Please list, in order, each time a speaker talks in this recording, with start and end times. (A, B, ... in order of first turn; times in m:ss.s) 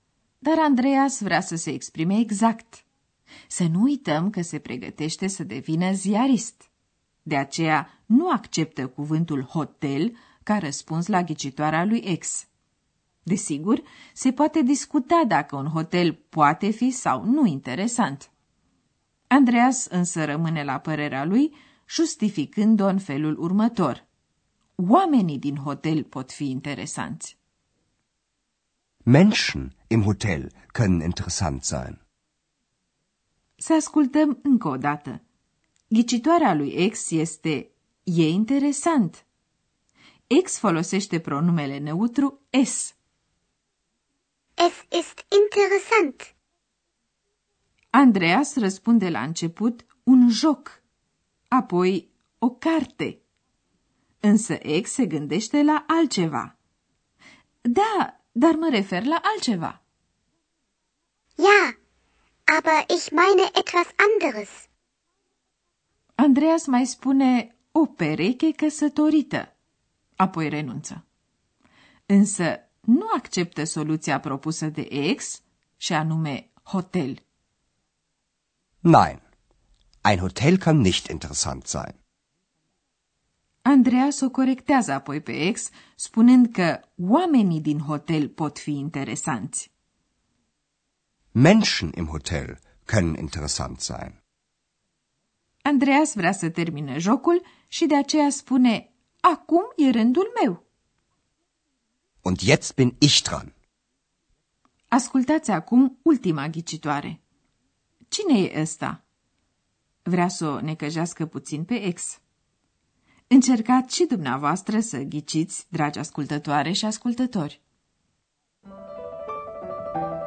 0:00.4-0:02.8 A
0:03.5-0:06.7 A
0:07.2-0:12.5 A
0:13.2-0:18.3 A
0:19.3-0:24.0 A
0:24.8-0:27.4 A
0:29.1-0:32.0 B
0:33.6-0:35.2 A
0:35.9-0:39.2 A
0:40.3-0:42.9 A
0:44.6-0:46.3 C
0:47.9-0:50.8 A
0:51.5-0:53.2 A
0:54.2-0:56.5 A
0:57.6-0:59.8 A
1:01.4-1:01.7 C
1:02.5-1:04.6 C
1:06.2-1:09.5 A
1:10.2-1:11.0 A
1:12.1-1:17.2 A
1:18.8-1:19.2 B
1:20.0-1:22.0 B
1:23.6-1:29.7 A
1:31.3-1:34.2 B
1:35.6-1:40.6 A
1:42.2-1:43.5 B
1:44.9-1:47.2 A
1:48.1-1:49.0 A
1:50.0-1:52.2 A
1:53.3-1:57.6 A